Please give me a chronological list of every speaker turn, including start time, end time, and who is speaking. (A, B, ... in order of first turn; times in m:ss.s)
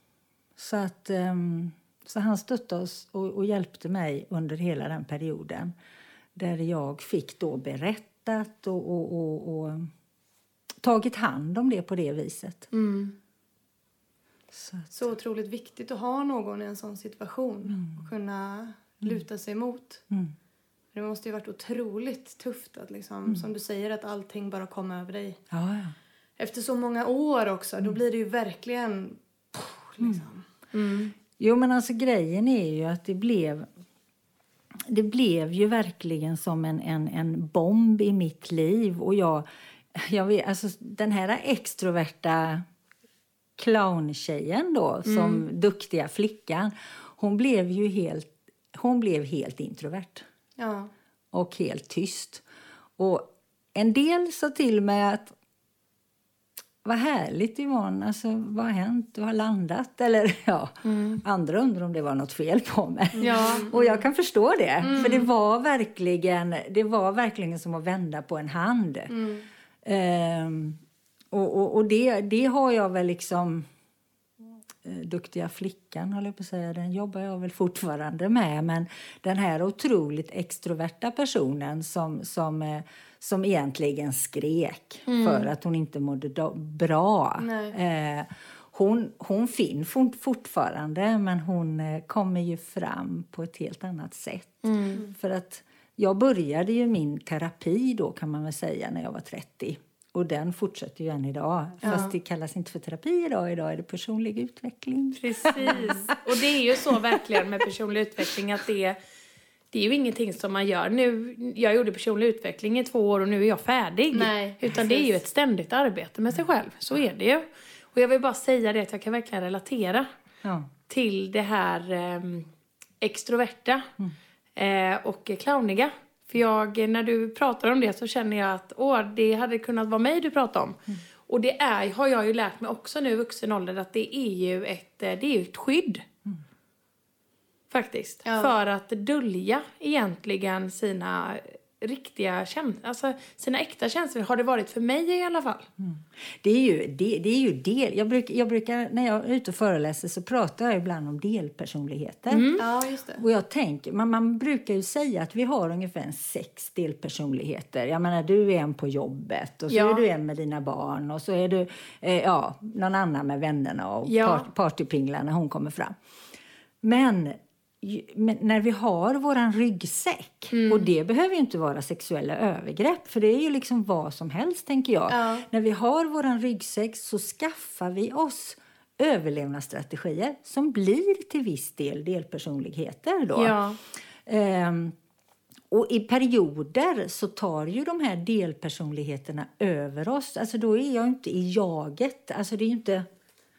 0:00.6-0:05.7 A
0:06.4-0:09.9 A
0:10.8-0:12.7 A
0:12.7-0:13.2 B
0:14.5-0:15.0 A
0:14.9-0:20.0 B
0:17.7-0:18.0 A
0:20.9-0:25.4 B
0:25.5-0:26.0 A
0:26.4-0:31.1 B
0:31.4-0:33.7 A
0:34.9-0:42.6 A
0:43.6-0:50.3 A
0:50.6-0:50.9 B
0:51.3-0:52.4 A
0:53.0-0:55.3 A
0:56.8-1:09.1 A
1:00.8-1:01.2 C
1:03.2-1:04.0 B
1:03.2-1:03.7 C
1:04.8-1:05.3 B
1:09.1-1:09.5 B
1:09.8-1:10.8 A
1:11.3-1:13.7 A
1:14.8-1:45.9 A
1:25.1-1:25.5 C
1:27.4-1:27.8 B
1:34.6-1:35.0 C
1:41.8-1:42.1 B
1:45.2-1:49.0 C
1:45.6-1:46.0 B
1:46.8-1:47.4 A
1:49.7-2:00.1 C
1:54.1-1:55.2 B
2:00.4-2:00.7 A
2:00.9-2:02.5 C
2:03.0-2:03.9 C
2:04.6-2:16.0 C
2:17.7-2:25.7 C
2:18.2-2:18.6 B
2:25.8-2:32.5 A
2:32.3-2:32.6 C
2:32.6-2:33.2 B
2:33.2-2:46.0 A
2:39.7-2:40.0 C
2:44.1-2:44.5 C
2:46.8-3:03.6 A
2:50.5-2:50.9 C
2:55.1-2:55.5 B
3:03.4-3:03.8 C
3:04.2-3:05.0 A
3:05.7-3:13.1 A